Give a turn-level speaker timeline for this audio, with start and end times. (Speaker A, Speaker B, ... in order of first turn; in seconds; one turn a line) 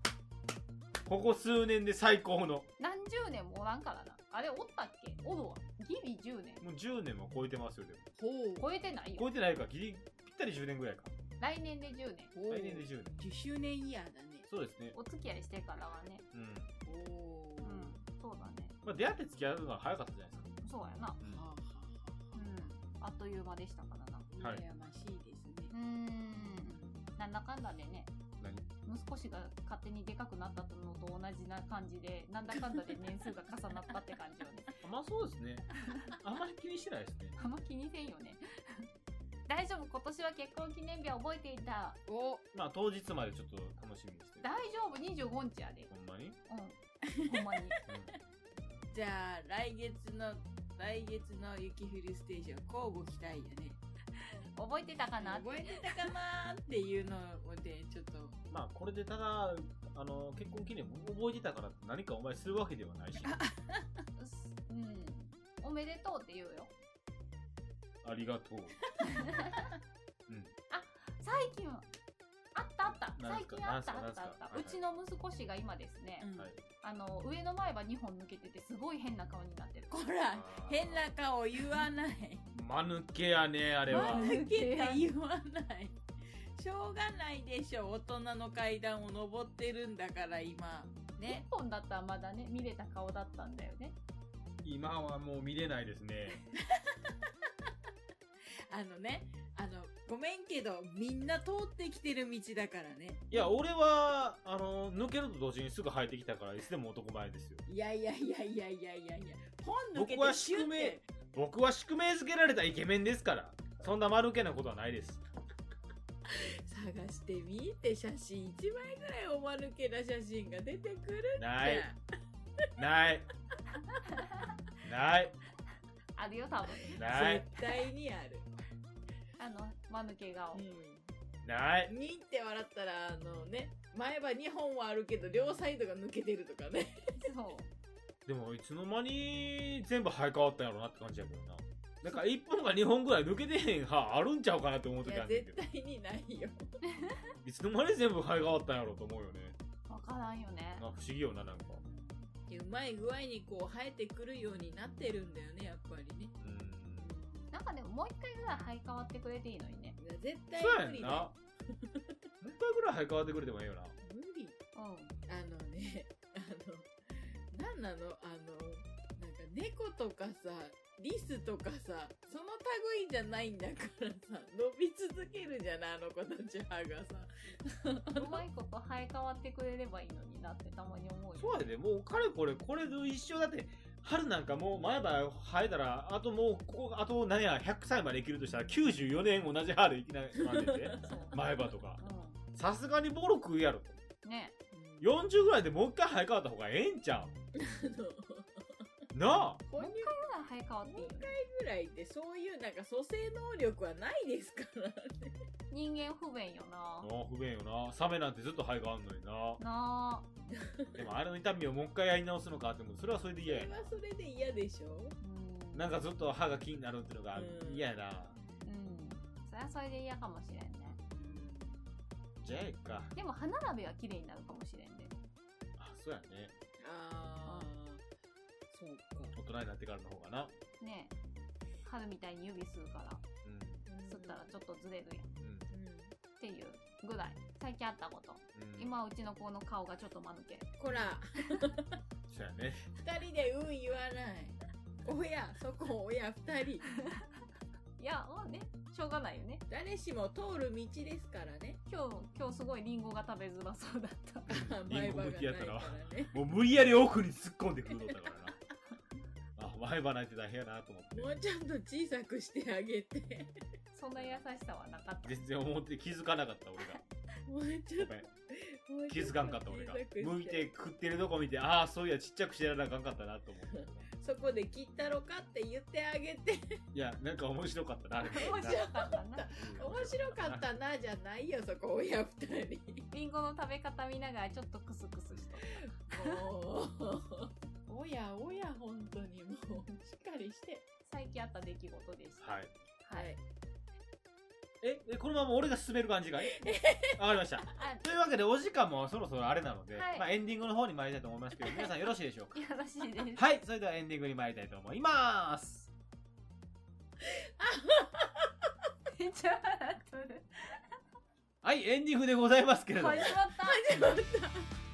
Speaker A: 1.1-2.7
Speaker B: 2.8-6.7
Speaker A: 6.6-8.1
Speaker C: 8.2-8.7
Speaker B: 8.6-9.3
Speaker A: 9.2-11.1
Speaker B: 11.4-12.3
Speaker C: 12.3-14.5
Speaker A: 12.5-13.2
Speaker A: 14.5-15.0
Speaker B: 14.9-16.3
Speaker A: 16.3-16.7
Speaker C: 16.9-18.0
Speaker B: 17.6-18.8
Speaker A: 18.8-20.6
Speaker B: 20.6-21.2
Speaker C: 21.3-22.8
Speaker B: 22.4-24.3
Speaker C: 24.3-25.7
Speaker B: 25.7-28.1
Speaker C: 26.4-27.0
Speaker A: 28.4-28.7
Speaker B: 28.9-34.7
Speaker A: 34.8-37.4
Speaker B: 35.9-36.2
Speaker B: 37.4-38.9
Speaker B: 39.5-42.0
Speaker C: 42.1-42.4
Speaker A: 42.5-44.5
Speaker B: 44.4-45.9
Speaker A: 45.9-46.4
Speaker B: 46.5-47.8
Speaker C: 47.1-47.7
Speaker A: 47.9-48.1
Speaker C: 48.9-53.8
Speaker B: 54.6-56.1
Speaker C: 55.2-58.4
Speaker A: 58.5-63.4
Speaker C: 63.2-63.9
Speaker B: 64.2-66.7
Speaker A: 68.0-68.8
Speaker B: 69.1-69.7
Speaker A: 70.3-70.5
Speaker B: 70.7-71.9
Speaker B: 72.5-76.3
Speaker A: 73.2-74.8
Speaker C: 76.2-76.5
Speaker B: 76.8-80.0
Speaker C: 79.9-82.5
Speaker A: 80.3-81.1
Speaker A: 82.5-84.3
Speaker B: 83.9-85.0
Speaker C: 83.9-86.0
Speaker C: 86.6-91.5
Speaker B: 91.2-94.0
Speaker A: 94.6-96.5
Speaker C: 96.6-97.3
Speaker C: 98.7-103.5
Speaker A: 103.3-107.6
Speaker C: 107.7-111.1
Speaker A: 110.0-115.2
Speaker C: 116.3-122.0
Speaker A: 121.4-121.9
Speaker A: 122.8-123.3
Speaker B: 124.2-124.4
Speaker A: 124.8-125.3
Speaker B: 126.2-127.0
Speaker C: 126.9-128.5
Speaker A: 127.0-127.5
Speaker B: 129.4-130.6
Speaker C: 130.5-131.1
Speaker A: 131.4-131.9
Speaker C: 131.9-137.3
Speaker B: 137.2-137.7
Speaker A: 138.3-145.6
Speaker C: 145.0-146.6
Speaker B: 146.9-147.3
Speaker A: 147.4-149.6
Speaker B: 149.9-150.9
Speaker A: 150.8-151.8
Speaker C: 151.7-156.3
Speaker A: 156.4-157.1
Speaker C: 157.0-157.5
Speaker B: 157.5-160.0
Speaker C: 160.0-162.2
Speaker A: 160.6-161.3
Speaker A: 162.4-163.9
Speaker C: 164.0-164.6
Speaker B: 164.8-165.2
Speaker C: 165.3-178.4
Speaker B: 178.2-181.7
Speaker A: 181.4-192.0
Speaker C: 190.4-191.2
Speaker B: 191.0-192.4
Speaker A: 192.6-194.0
Speaker B: 194.2-194.5
Speaker C: 194.7-195.1
Speaker A: 195.0-197.3
Speaker C: 197.6-198.7
Speaker A: 199.1-199.6
Speaker C: 199.7-200.1
Speaker B: 199.8-201.3
Speaker C: 200.8-205.4
Speaker B: 205.7-207.1
Speaker A: 207.0-209.6
Speaker B: 209.6-210.3
Speaker C: 210.5-211.1
Speaker A: 211.0-213.9
Speaker C: 213.4-215.2
Speaker B: 215.2-215.9
Speaker A: 215.7-218.4
Speaker C: 217.3-217.9
Speaker B: 218.6-221.0
Speaker C: 221.1-222.0
Speaker A: 222.4-223.1
Speaker B: 223.2-225.2
Speaker A: 225.8-226.5
Speaker C: 226.8-228.0
Speaker C: 228.7-229.3
Speaker A: 229.3-230.5
Speaker B: 230.8-231.1
Speaker B: 231.8-233.2
Speaker A: 233.4-233.9
Speaker C: 233.9-234.4
Speaker B: 234.1-235.3
Speaker A: 235.4-235.7
Speaker C: 235.7-236.2
Speaker B: 236.4-240.7
Speaker A: 238.6-238.9
Speaker C: 240.8-242.0
Speaker A: 242.3-242.8
Speaker C: 242.9-246.9
Speaker B: 248.0-249.6
Speaker C: 249.7-251.8
Speaker B: 251.9-254.5
Speaker C: 254.5-256.4
Speaker A: 254.5-258.6
Speaker A: 259.6-261.3
Speaker C: 261.1-263.6
Speaker B: 263.9-265.4
Speaker A: 264.1-264.4
Speaker A: 265.2-267.0
Speaker C: 267.5-270.6
Speaker A: 268.0-268.3
Speaker A: 269.1-274.1
Speaker C: 273.7-276.8
Speaker A: 276.9-278.9
Speaker B: 278.3-279.5
Speaker C: 278.3-283.1
Speaker A: 279.5-280.6
Speaker B: 283.1-286.4
Speaker C: 285.8-290.8
Speaker B: 291.1-293.3
Speaker A: 292.4-292.7
Speaker C: 293.1-293.4
Speaker A: 294.8-302.6
Speaker C: 296.5-297.2
Speaker B: 297.7-298.1
Speaker B: 299.9-300.3
Speaker B: 302.6-303.4
Speaker A: 303.3-305.9
Speaker C: 307.2-308.5
Speaker B: 309.1-310.8
Speaker A: 311.6-313.5
Speaker B: 312.9-314.2
Speaker C: 313.5-314.7